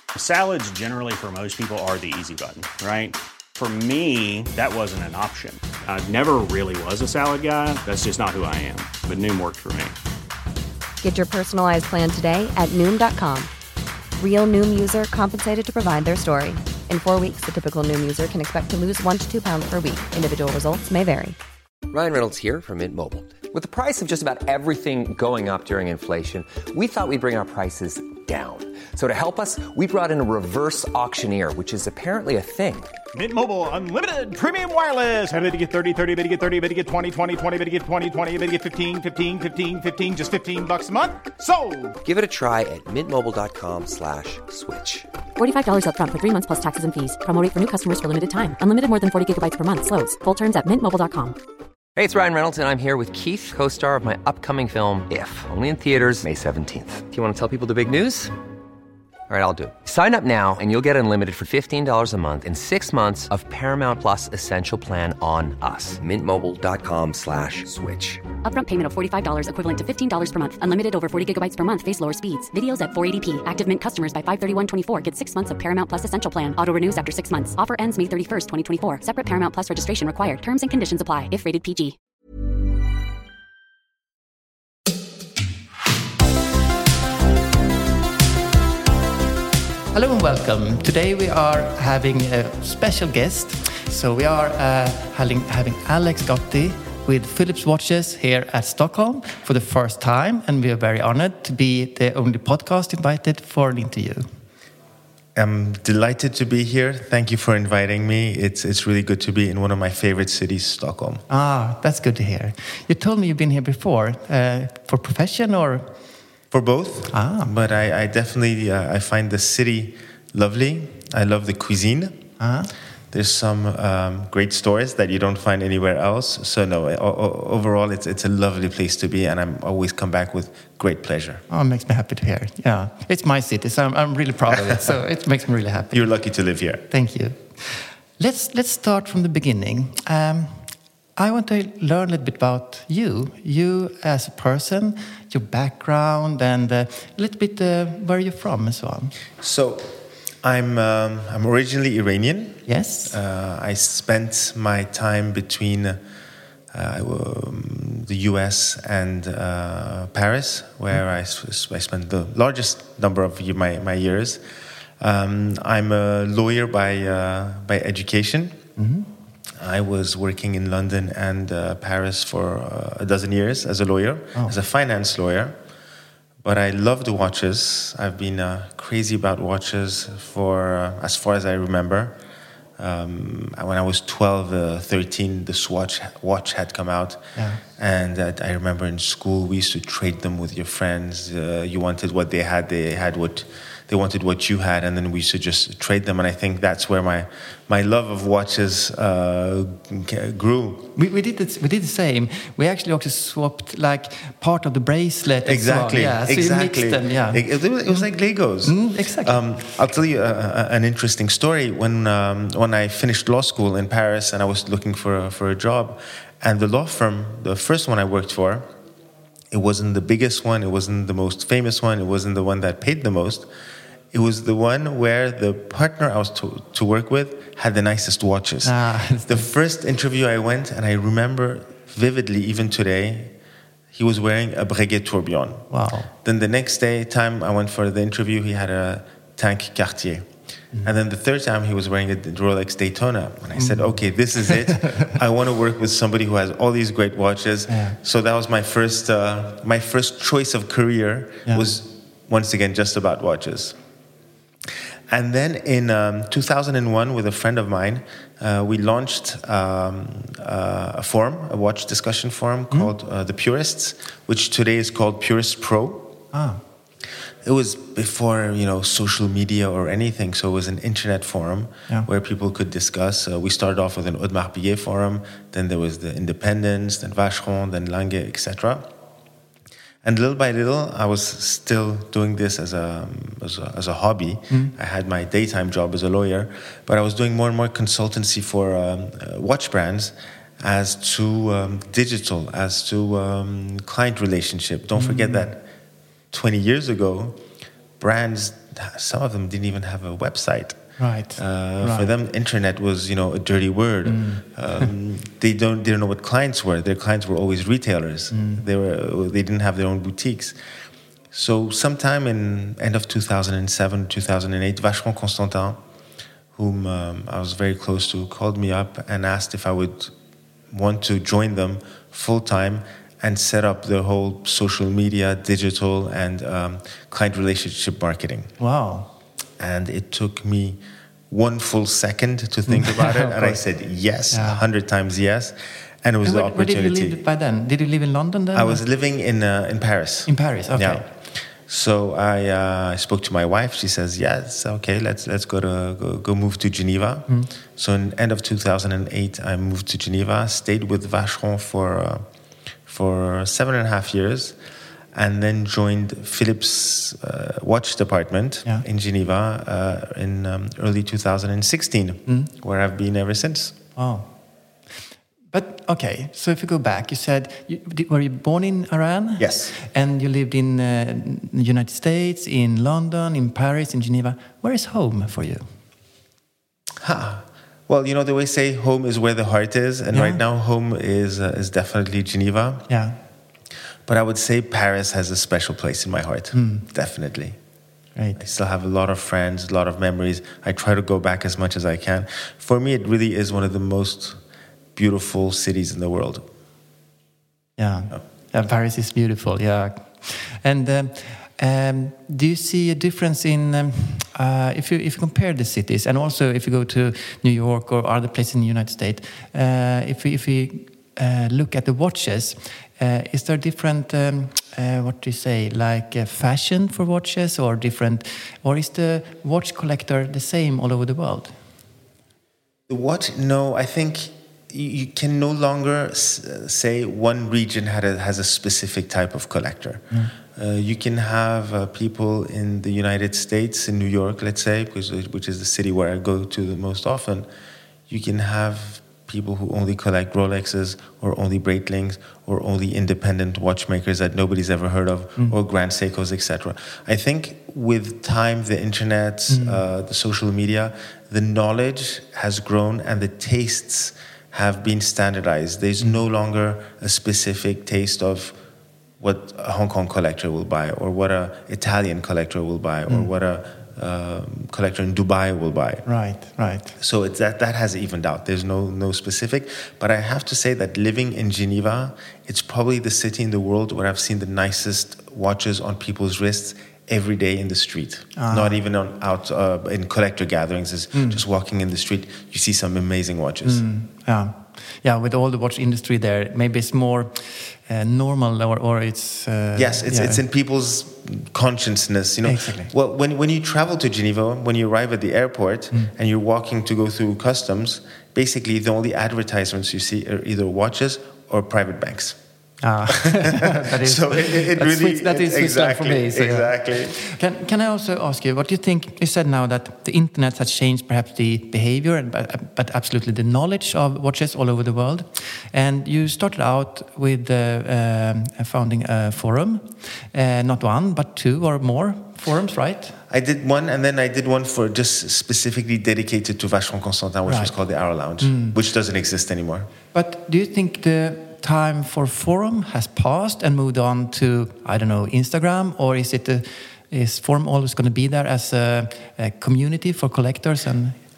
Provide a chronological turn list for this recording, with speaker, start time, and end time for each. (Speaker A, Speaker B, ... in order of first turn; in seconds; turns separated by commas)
Speaker A: 0.1-9.9, Speaker B: 11.0-13.5, Speaker B: 14.2-21.4, Speaker C: 21.9-32.9, Speaker D: 33.1-41.9, Speaker C: 42.0-45.1, Speaker E: 45.4-51.4, Speaker C: 52.0-58.3, Speaker C: 59.3-68.2, Speaker E: 68.4-81.9, Speaker F: 89.9-104.3, Speaker G: 105.3-111.2, Speaker F: 111.3-115.9, Speaker G: 116.5-122.3, Speaker F: 117.1-117.5, Speaker F: 122.4-122.7, Speaker G: 123.1-131.4, Speaker F: 131.5-136.1, Speaker G: 134.5-135.0, Speaker G: 135.9-136.8, Speaker F: 136.9-149.2, Speaker G: 149.4-156.0, Speaker F: 152.7-153.2, Speaker G: 156.7-164.4, Speaker G: 165.0-168.6, Speaker F: 168.8-169.1, Speaker G: 169.5-175.6, Speaker G: 176.4-182.2, Speaker G: 182.8-200.9, Speaker F: 187.3-187.6, Speaker F: 200.9-208.1, Speaker G: 205.4-218.7, Speaker F: 208.6-209.4, Speaker G: 219.5-223.5, Speaker G: 224.1-233.3, Speaker F: 228.6-229.5, Speaker G: 233.9-240.3, Speaker F: 235.7-236.1, Speaker G: 240.8-253.8, Speaker F: 243.6-245.1, Speaker F: 247.7-248.0, Speaker G: 255.1-266.2, Speaker F: 266.3-266.6, Speaker G: 267.4-278.9, Speaker G: 280.0-295.7, Speaker F: 294.9-295.5, Speaker G: 296.3-297.4, Speaker G: 298.0-300.8, Speaker F: 301.0-302.1, Speaker G: 301.4-310.6, Speaker F: 304.0-304.9, Speaker F: 308.3-308.6, Speaker G: 311.3-315.8, Speaker G: 316.5-320.1, Speaker G: 320.7-328.5, Speaker F: 328.6-329.1, Speaker G: 329.6-337.2, Speaker F: 332.7-333.6, Speaker F: 334.3-334.6, Speaker F: 336.2-338.8, Speaker G: 338.5-352.2, Speaker F: 340.3-341.1, Speaker G: 352.9-354.6, Speaker G: 355.1-363.7, Speaker F: 363.9-364.3, Speaker F: 365.5-375.7, Speaker G: 369.4-369.7, Speaker G: 377.0-382.9, Speaker F: 380.1-380.4, Speaker F: 382.9-383.2, Speaker G: 384.1-387.6, Speaker F: 386.5-386.9, Speaker G: 388.4-394.4, Speaker G: 394.9-396.4, Speaker F: 397.8-421.6, Speaker G: 422.9-437.5, Speaker G: 438.1-458.6, Speaker F: 449.5-449.8, Speaker G: 459.2-466.1, Speaker F: 466.0-466.9, Speaker G: 467.0-483.8, Speaker F: 478.4-478.7, Speaker F: 481.1-481.4, Speaker F: 483.6-490.4, Speaker G: 489.7-502.4, Speaker F: 492.4-492.9, Speaker F: 502.8-523.1, Speaker G: 503.1-507.2, Speaker G: 523.3-529.9, Speaker F: 527.4-527.7, Speaker F: 528.4-528.8, Speaker F: 530.1-541.2